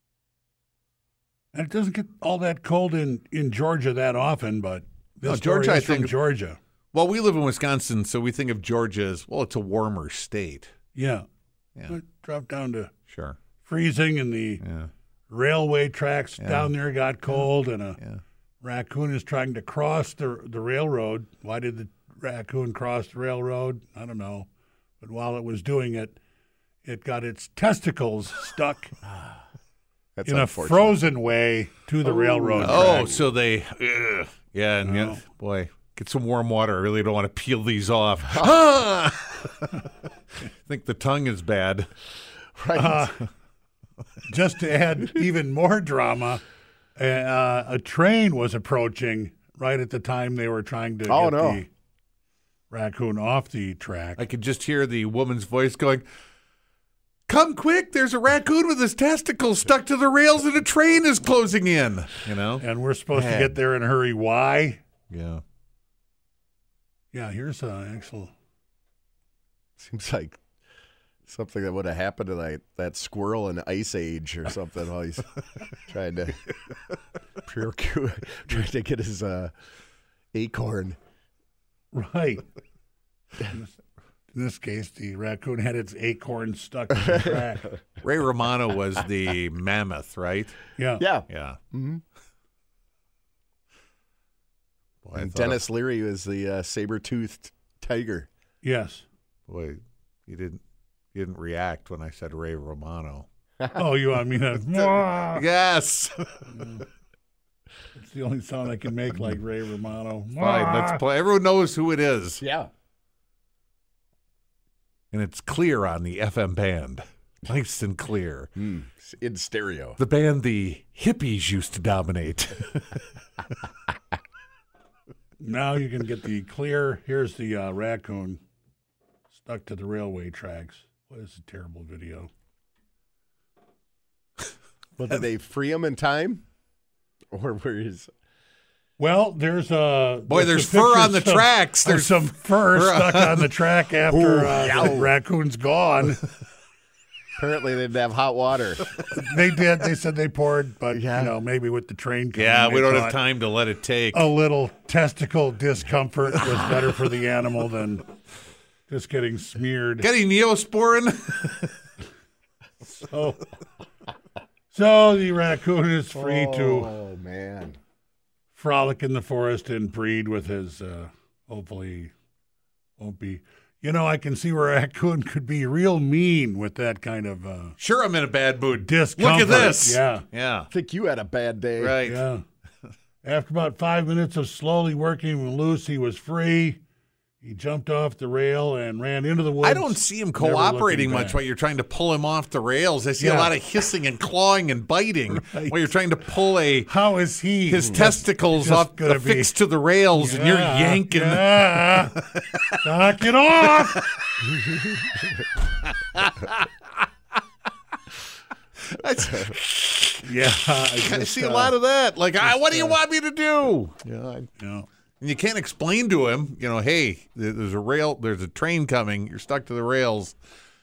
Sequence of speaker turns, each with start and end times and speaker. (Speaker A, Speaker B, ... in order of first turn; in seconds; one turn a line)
Speaker A: 1.5-6.6
Speaker B: 5.2-6.2
Speaker B: 6.9-10.7
Speaker A: 10.9-11.2
Speaker A: 11.9-12.9
Speaker B: 13.1-13.4
Speaker A: 13.6-14.6
Speaker B: 14.6-14.9
Speaker A: 15.3-18.0
Speaker B: 16.4-16.7
Speaker A: 18.6-24.5
Speaker A: 25.0-26.2
Speaker A: 26.8-28.9
Speaker C: 30.1-31.0
Speaker A: 30.2-33.1
Speaker C: 32.0-33.3
Speaker B: 32.6-39.9
Speaker A: 34.8-35.2
Speaker B: 40.6-41.9
Speaker C: 42.6-43.1
Speaker A: 42.7-43.3
Speaker A: 44.2-46.4
Speaker A: 47.0-51.7
Speaker C: 51.0-51.6
Speaker A: 52.7-54.2
Speaker B: 54.2-56.0
Speaker B: 57.3-62.6
Speaker A: 62.6-64.8
Speaker C: 63.1-63.6
Speaker B: 65.1-65.4
Speaker A: 67.1-68.3
Speaker C: 69.8-70.4
Speaker C: 71.3-75.3
Speaker C: 75.9-76.4
Speaker C: 77.4-79.5
Speaker C: 80.3-81.0
Speaker A: 81.9-82.4
Speaker A: 83.5-83.7
Speaker A: 84.3-87.8
Speaker B: 88.0-90.6
Speaker A: 90.8-91.0
Speaker C: 91.0-92.0
Speaker B: 91.3-91.6
Speaker B: 95.0-95.6
Speaker C: 95.1-98.3
Speaker A: 98.6-99.0
Speaker B: 99.5-100.6
Speaker B: 101.1-103.2
Speaker A: 103.8-105.5
Speaker B: 104.6-106.8
Speaker A: 107.9-111.0
Speaker B: 110.4-112.4
Speaker C: 112.4-112.7
Speaker B: 115.1-118.5
Speaker C: 118.6-120.0
Speaker B: 120.0-123.0
Speaker A: 125.4-128.4
Speaker A: 129.3-132.3
Speaker C: 135.0-136.4
Speaker C: 137.3-138.1
Speaker A: 139.0-146.2
Speaker B: 140.3-143.5
Speaker C: 144.0-145.1
Speaker C: 147.4-148.8
Speaker A: 149.1-153.2
Speaker C: 150.9-151.3
Speaker B: 152.3-154.3
Speaker A: 154.1-158.0
Speaker A: 158.9-160.1
Speaker B: 160.0-161.8
Speaker A: 162.8-163.4
Speaker A: 164.7-166.9
Speaker C: 166.1-167.8
Speaker A: 168.5-172.1
Speaker A: 173.0-177.8
Speaker B: 177.8-180.7
Speaker A: 178.8-180.2
Speaker C: 180.7-182.0
Speaker B: 181.8-182.2
Speaker A: 182.0-182.4
Speaker A: 183.2-186.8
Speaker A: 187.4-191.4
Speaker B: 189.6-196.9
Speaker A: 193.2-193.6
Speaker A: 195.3-195.9
Speaker A: 196.8-199.5
Speaker B: 197.7-202.8
Speaker A: 200.1-202.2
Speaker A: 202.8-204.1
Speaker C: 204.6-204.9
Speaker B: 205.8-206.6
Speaker B: 208.9-214.5
Speaker A: 210.2-211.7
Speaker A: 212.5-213.0
Speaker A: 214.6-214.9
Speaker B: 215.2-220.4